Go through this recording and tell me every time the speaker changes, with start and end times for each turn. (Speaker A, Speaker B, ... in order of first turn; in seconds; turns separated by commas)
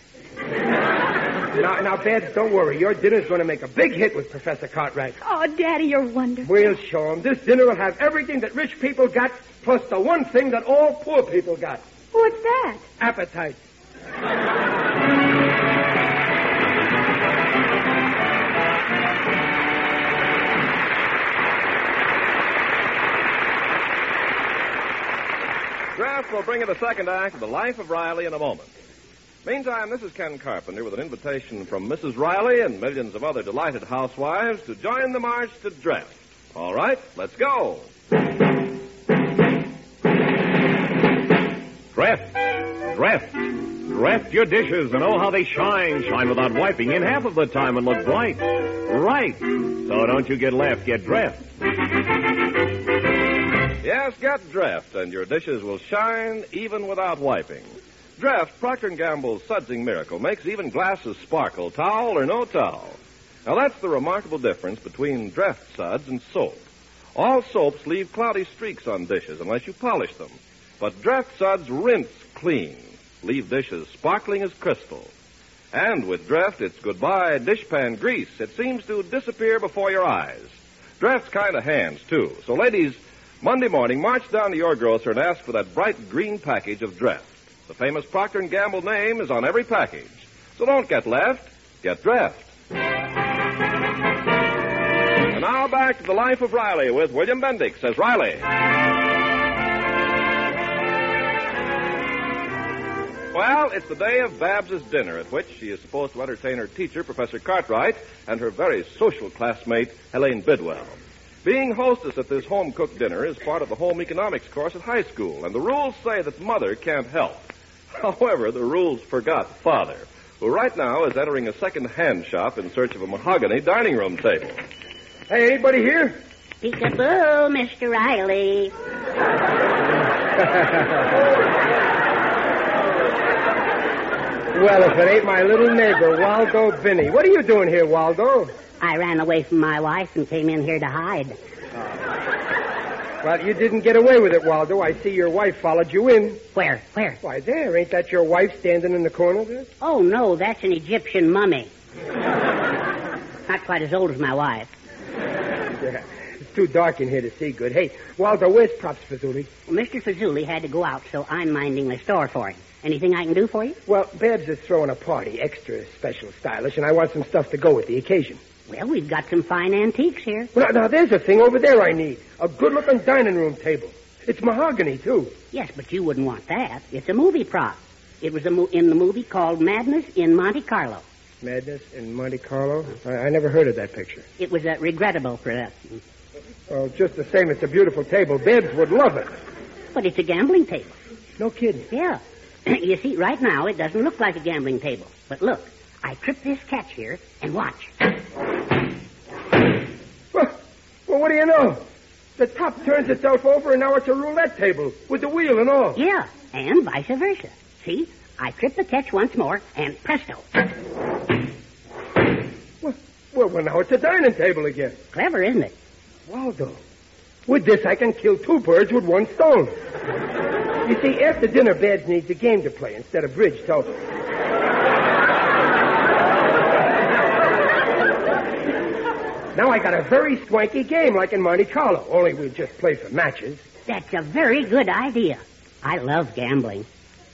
Speaker A: 1.5-5.2, Speaker B: 5.2-6.7, Speaker A: 6.4-11.8, Speaker B: 12.1-12.9, Speaker A: 13.0-13.6, Speaker C: 25.9-28.7, Speaker C: 29.4-37.9, Speaker D: 43.0-43.2, Speaker D: 44.0-51.3, Speaker C: 53.8-66.6, Speaker C: 67.1-75.1, Speaker C: 75.7-92.5, Speaker C: 95.3-98.5, Speaker C: 103.3-124.6, Speaker A: 125.3-126.2, Speaker E: 126.6-128.7, Speaker A: 134.5-138.5, Speaker E: 138.8-141.3, Speaker A: 143.2-146.4, Speaker E: 146.5-147.2, Speaker A: 147.2-149.7, Speaker E: 149.8-151.7, Speaker E: 153.5-154.7, Speaker A: 155.7-159.5, Speaker E: 159.7-163.8, Speaker A: 163.8-168.4, Speaker E: 168.7-170.5, Speaker A: 170.5-175.3, Speaker E: 175.5-181.0, Speaker A: 181.4-184.3, Speaker E: 184.4-186.0, Speaker A: 186.7-189.3, Speaker E: 189.9-190.9, Speaker A: 191.4-191.9, Speaker E: 191.9-198.1, Speaker A: 200.3-201.8, Speaker A: 202.4-206.0, Speaker E: 205.9-210.6, Speaker A: 212.8-215.0, Speaker E: 215.1-215.7, Speaker A: 216.3-216.8, Speaker A: 217.4-219.8, Speaker A: 220.8-223.9, Speaker A: 229.5-233.7, Speaker E: 233.9-236.9